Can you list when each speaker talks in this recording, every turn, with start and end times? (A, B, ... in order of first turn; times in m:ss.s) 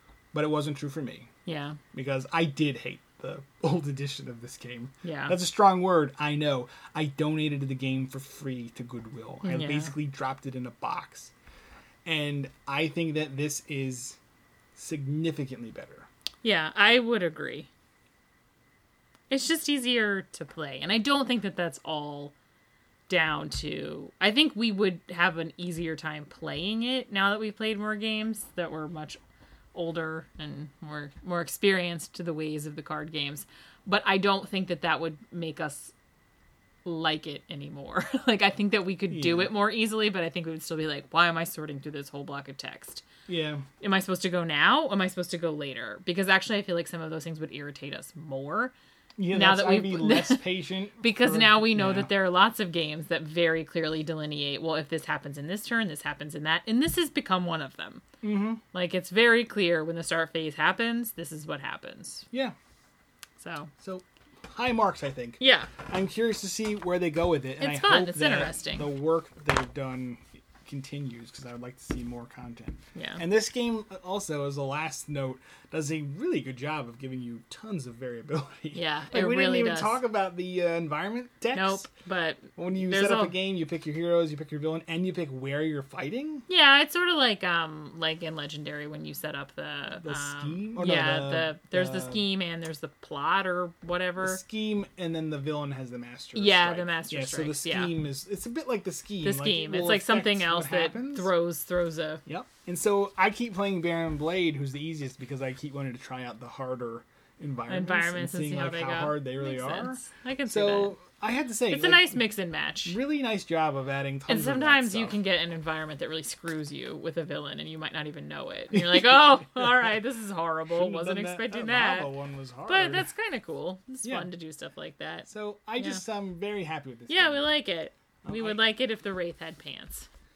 0:00.3-0:01.3 A
0:01.4-0:01.8 B
0:01.9-0:11.3 A
0:05.0-0:05.4 B
0:09.4-0:09.9 B
0:12.0-0:14.2 A
0:14.7-0:16.1 A
0:16.4-0:17.7 B
0:19.3-0:22.3 B
0:23.1-0:29.2 B
0:29.7-0:35.9 B
0:36.8-0:43.0 B
0:39.1-0:39.5 A
0:43.3-0:43.7 A
0:43.8-0:48.7 B
0:49.2-0:52.1 A
0:49.3-0:50.4 B
0:51.0-0:58.0 B
0:58.2-0:58.6 A
0:58.7-1:02.3 B
1:02.3-1:02.6 A
1:03.4-1:03.7 B
1:03.8-1:21.9 A
1:05.4-1:05.7 B
1:07.6-1:08.9 B
1:12.9-1:13.2 B
1:18.7-1:20.0 B
1:21.5-1:23.3 B
1:22.6-1:26.4 A
1:26.5-1:34.4 B
1:30.0-1:32.2 A
1:34.2-1:41.3 A
1:36.3-1:37.9 B
1:39.2-1:42.2 B
1:42.2-1:52.2 A
1:47.7-1:51.0 B
1:51.7-1:53.0 B
1:52.8-1:55.2 A
1:54.3-2:02.1 B
1:58.7-1:59.9 A
2:00.7-2:03.1 A
2:02.7-2:06.0 B
2:04.0-2:04.3 A
2:05.3-2:07.5 A
2:07.1-2:10.1 B
2:08.2-2:08.6 A